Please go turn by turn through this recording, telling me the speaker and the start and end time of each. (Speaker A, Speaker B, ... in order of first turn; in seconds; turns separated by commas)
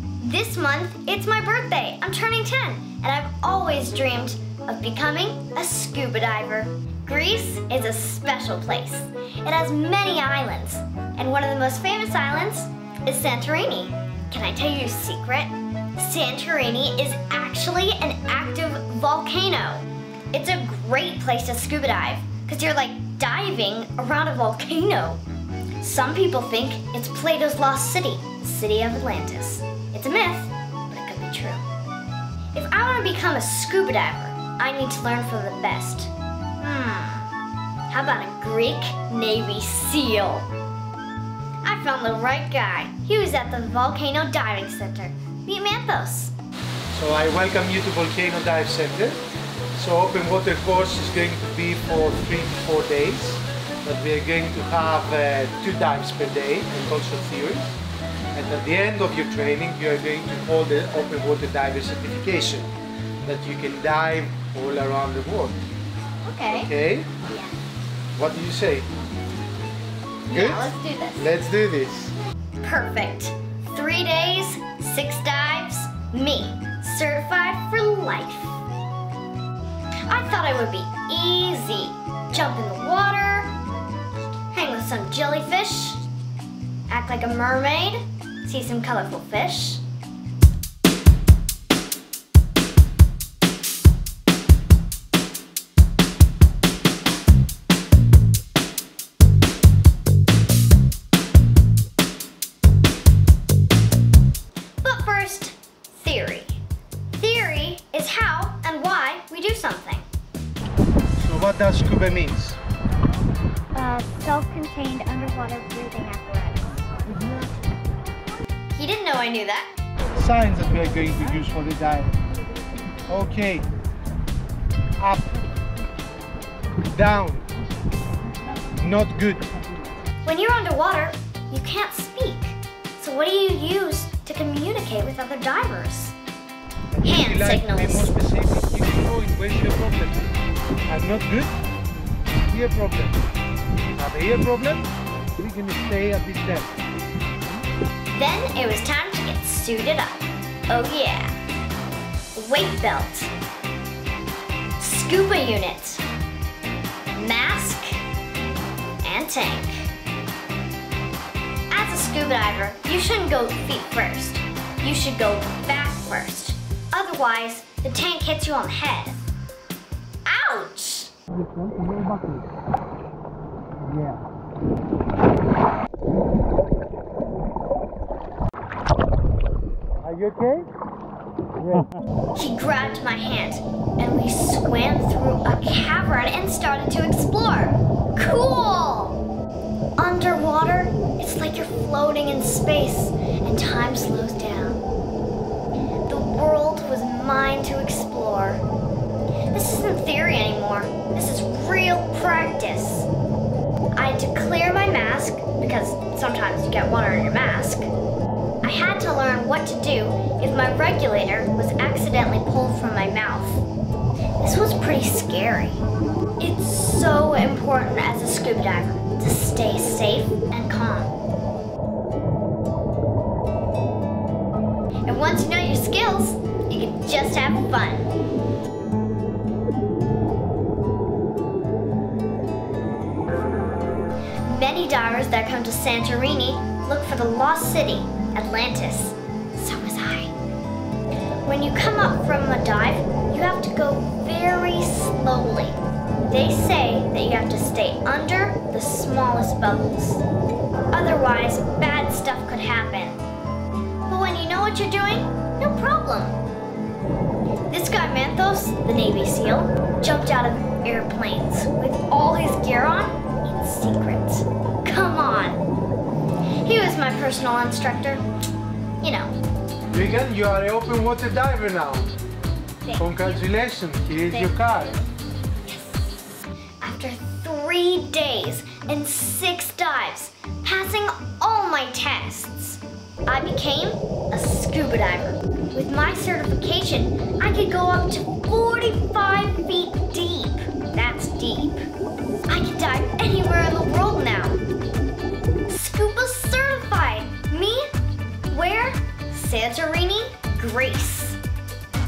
Speaker A: 0.2-25.2, Speaker A: 25.8-31.6, Speaker A: 32.5-37.3, Speaker A: 37.9-40.5, Speaker A: 41.6-46.3, Speaker B: 46.9-49.2, Speaker B: 49.7-57.8, Speaker B: 58.3-62.7, Speaker B: 63.2-65.6, Speaker A: 66.2-66.7, Speaker B: 66.5-67.1, Speaker B: 68.1-68.9, Speaker A: 70.2-71.3, Speaker B: 70.3-72.1, Speaker A: 72.6-78.6, Speaker A: 80.1-83.5, Speaker A: 84.5-86.0, Speaker A: 86.9-89.8, Speaker A: 104.8-106.6, Speaker A: 107.2-110.0, Speaker B: 111.2-112.6, Speaker C: 113.8-116.9, Speaker A: 118.7-119.7, Speaker B: 120.2-122.1, Speaker B: 123.1-123.7, Speaker B: 125.0-125.4, Speaker B: 126.9-127.5, Speaker B: 128.7-129.5, Speaker A: 130.2-136.2, Speaker B: 136.9-140.3, Speaker A: 137.0-138.2, Speaker B: 140.9-141.6, Speaker B: 142.5-143.2, Speaker B: 143.9-146.7, Speaker A: 148.1-151.3, Speaker A: 152.3-153.3, Speaker A: 154.8-156.0, Speaker A: 157.1-158.0, Speaker A: 159.0-159.9, Speaker A: 161.7-169.2, Speaker A: 170.3-171.1, Speaker B: 171.4-172.4, Speaker B: 173.8-174.2, Speaker B: 180.0-180.7, Speaker B: 181.6-181.9, Speaker A: 182.3-189.2, Speaker A: 190.0-194.8, Speaker A: 196.1-198.6, Speaker A: 199.5-203.1, Speaker A: 204.0-207.9, Speaker A: 208.6-213.7, Speaker A: 214.4-215.8, Speaker A: 216.4-221.1, Speaker A: 225.1-228.1, Speaker A: 234.4-240.3, Speaker A: 241.4-250.2, Speaker A: 250.9-253.2, Speaker A: 254.1-256.4, Speaker A: 257.7-265.6, Speaker A: 266.6-268.2, Speaker A: 269.0-269.3, Speaker B: 269.9-272.1, Speaker A: 272.8-273.4, Speaker B: 273.0-275.0, Speaker A: 274.1-275.0, Speaker A: 275.6-291.8, Speaker A: 292.5-294.6, Speaker A: 295.7-297.9, Speaker A: 298.5-301.4